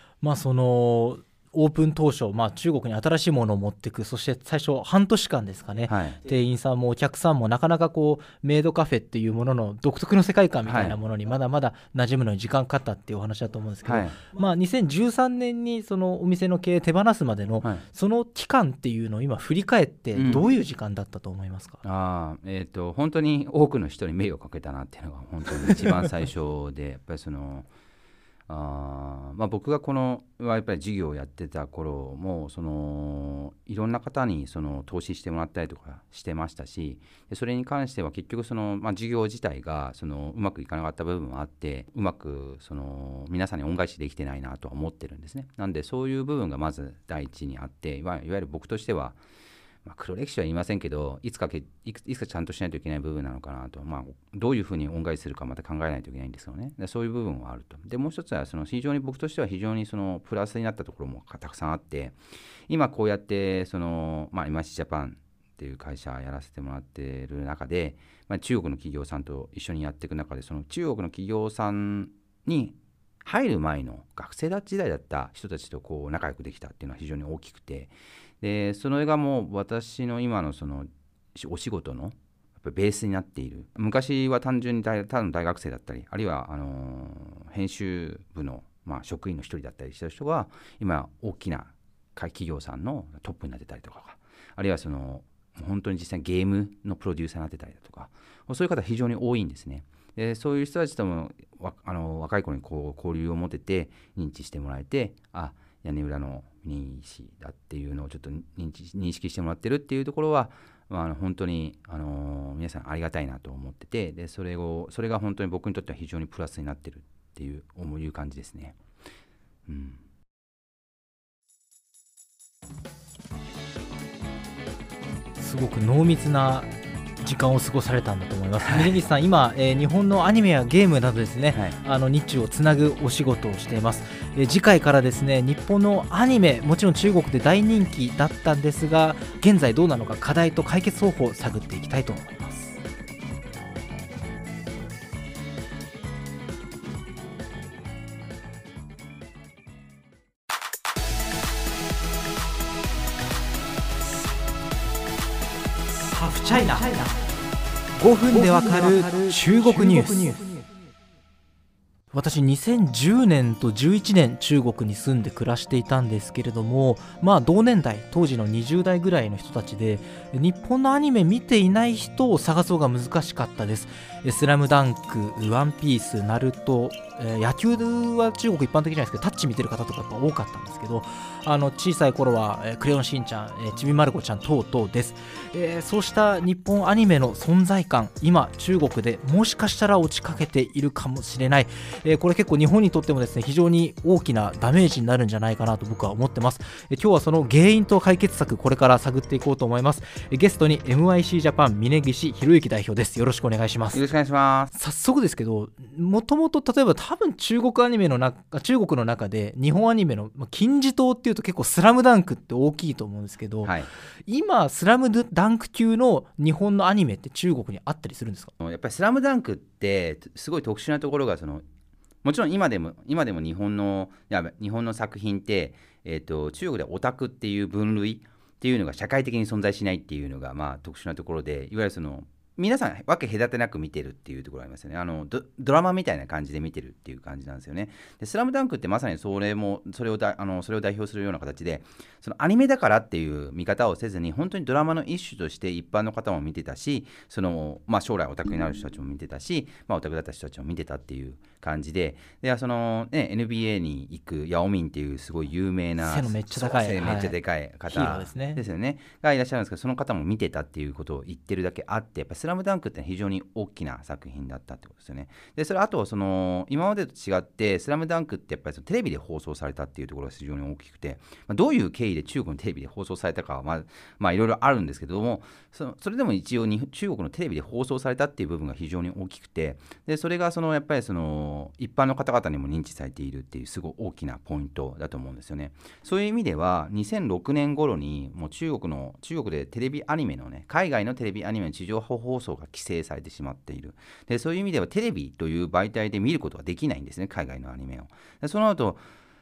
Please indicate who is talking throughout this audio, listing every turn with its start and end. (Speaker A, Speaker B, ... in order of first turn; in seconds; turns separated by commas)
Speaker A: 0.2-21.8, Speaker B: 5.9-6.2, Speaker B: 10.7-11.0, Speaker B: 13.8-14.2, Speaker B: 20.1-20.4, Speaker B: 21.8-27.7, Speaker B: 28.5-49.2, Speaker B: 49.8-118.8, Speaker B: 119.7-120.0, Speaker A: 125.4-126.7, Speaker A: 127.2-142.8, Speaker B: 128.6-128.9, Speaker A: 156.1-157.1, Speaker A: 158.0-160.4, Speaker A: 162.1-204.0, Speaker B: 203.9-204.7, Speaker A: 204.7-213.7, Speaker B: 213.6-213.9, Speaker A: 214.3-218.5, Speaker B: 218.6-221.6, Speaker B: 222.2-299.0, Speaker A: 256.0-257.4, Speaker A: 257.9-258.6